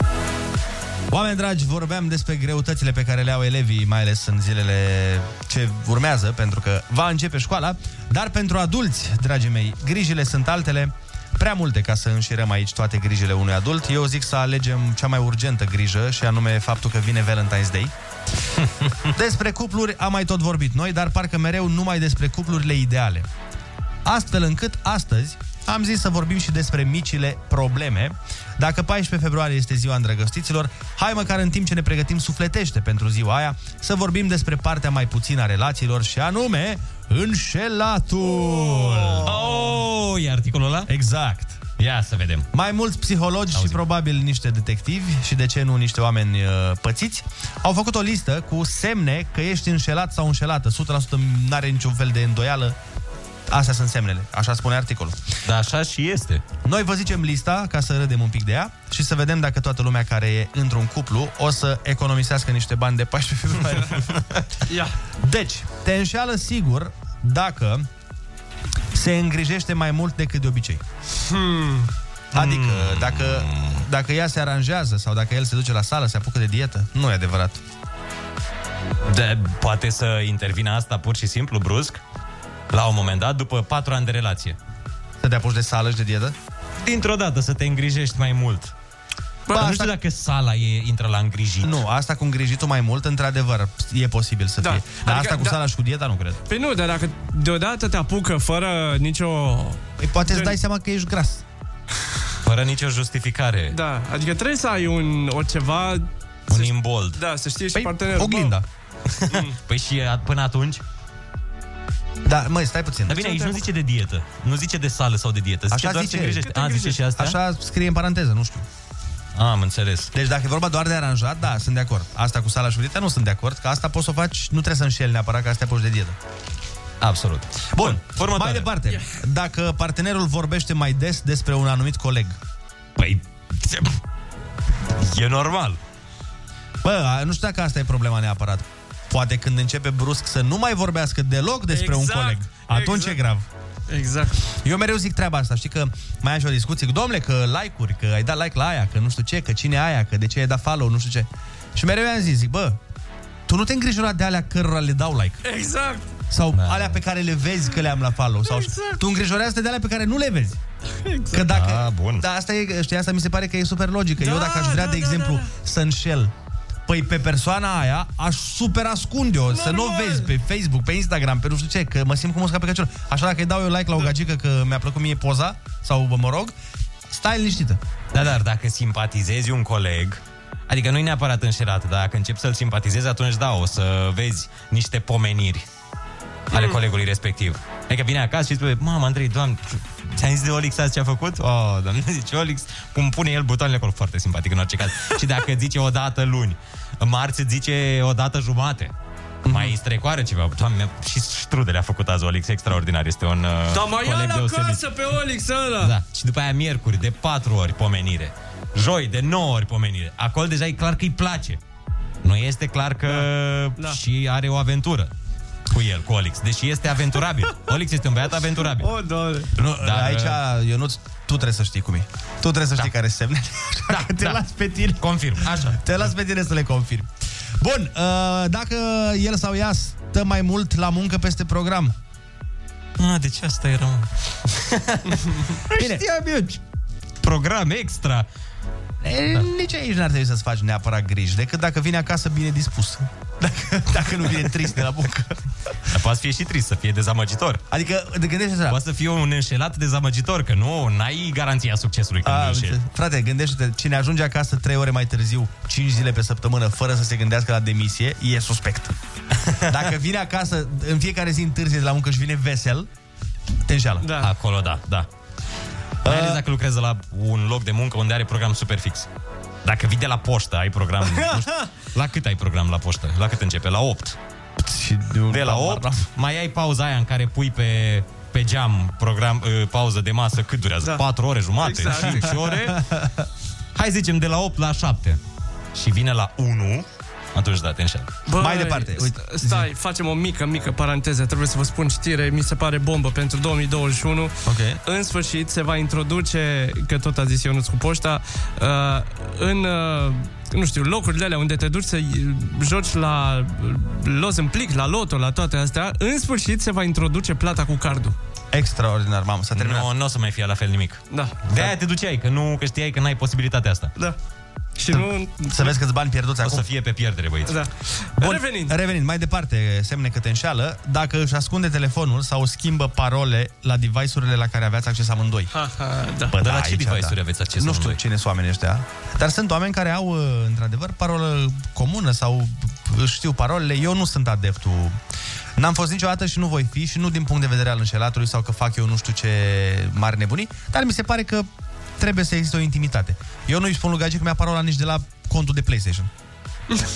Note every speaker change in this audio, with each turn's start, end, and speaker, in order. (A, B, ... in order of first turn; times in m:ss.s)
0:01.1-0:17.9 A
0:19.1-0:23.3 A
0:24.0-0:39.5 A
0:38.4-0:40.9 B
0:40.9-0:41.6 A
0:41.8-0:42.5 B
0:42.5-0:52.8 A
0:43.5-0:43.8 B
0:53.5-0:55.2 A
0:55.4-0:56.4 B
0:56.6-1:04.2 A
1:04.7-1:04.9 C
1:05.2-1:07.9 A
1:08.9-1:10.8 A
1:11.2-1:11.9 C
1:12.3-1:13.8 B
1:12.3-1:17.6 A
1:19.0-1:22.0 B
1:22.7-1:24.6 B
1:25.2-1:26.4 A
1:26.8-1:28.7 B
1:29.5-1:29.9 A
1:29.5-1:31.8 B
1:31.6-1:36.4 A
1:34.6-1:35.6 C
1:36.5-1:40.5 C
1:40.0-1:41.4 A
1:42.4-1:43.8 B
1:43.7-1:48.5 C
1:46.5-1:47.2 B
1:47.7-1:48.6 A
1:49.1-1:50.8 B
1:49.3-1:49.6 C
1:52.2-1:53.2 A
1:53.1-1:57.4 B
1:53.2-1:53.6 C
1:55.7-1:58.6 A
1:56.4-1:56.8 C
1:59.3-2:00.1 B
2:00.1-2:06.2 A
2:07.0-2:08.7 B
2:07.7-2:12.4 A
2:13.0-2:13.9 B
2:15.0-2:15.8 B
2:16.8-2:23.4 A
2:21.7-2:23.2 C
2:23.9-2:24.4 C
2:24.6-2:32.8 A
2:33.5-2:35.4 A
2:35.4-2:36.1 C
2:36.3-2:40.6 A
2:36.5-2:37.0 B
2:38.4-2:39.0 C
2:41.0-2:41.5 C
2:41.3-2:46.3 A
2:41.5-2:42.2 B
2:44.2-2:45.5 C
2:46.9-2:56.5 A
2:49.5-2:50.3 C
2:57.1-2:57.8 A
2:58.1-3:05.6 B
3:06.5-3:18.9 B
3:19.4-3:19.7 A
3:19.4-3:24.8 B
3:23.7-3:25.9 C
3:25.8-3:31.6 B
3:32.2-3:35.1 B
3:33.0-3:34.0 C
3:35.7-3:38.9 B
3:38.7-3:39.5 C
3:39.6-3:44.8 A
3:39.8-3:40.4 B
3:43.9-3:46.1 B
3:45.4-3:47.1 A
3:47.6-3:52.0 A
3:53.0-3:56.6 B
3:55.7-3:56.0 A
3:57.2-3:58.2 B
3:59.0-4:05.4 A
4:05.9-4:07.6 B
4:07.7-4:08.8 A
4:08.7-4:12.8 B
4:12.2-4:18.9 A
4:19.6-4:22.9 A
4:23.6-4:24.1 A
4:24.0-4:24.3 C
4:24.2-4:25.1 B
4:26.0-4:26.4 A
4:26.0-4:29.1 B
4:29.6-4:34.2 B
4:31.1-4:31.5 C
4:34.6-4:36.1 A
4:35.3-4:42.8 B
4:41.6-4:42.4 C
4:42.8-4:43.0 A
4:43.7-4:45.2 B
4:45.7-4:48.1 B
4:48.2-5:08.2 C
4:48.4-4:49.7 A
4:54.4-4:54.8 A
5:08.5-5:09.9 A
5:09.5-5:13.9 B
5:11.1-5:11.6 C
5:14.8-5:15.7 C
5:14.9-5:16.6 A
5:16.4-5:17.6 B
5:17.4-5:18.7 C
5:18.2-5:25.5 A
5:25.5-5:26.4 C
5:26.3-5:35.0 A
5:26.4-5:28.0 B
5:35.6-5:41.5 A
5:42.0-5:46.1 A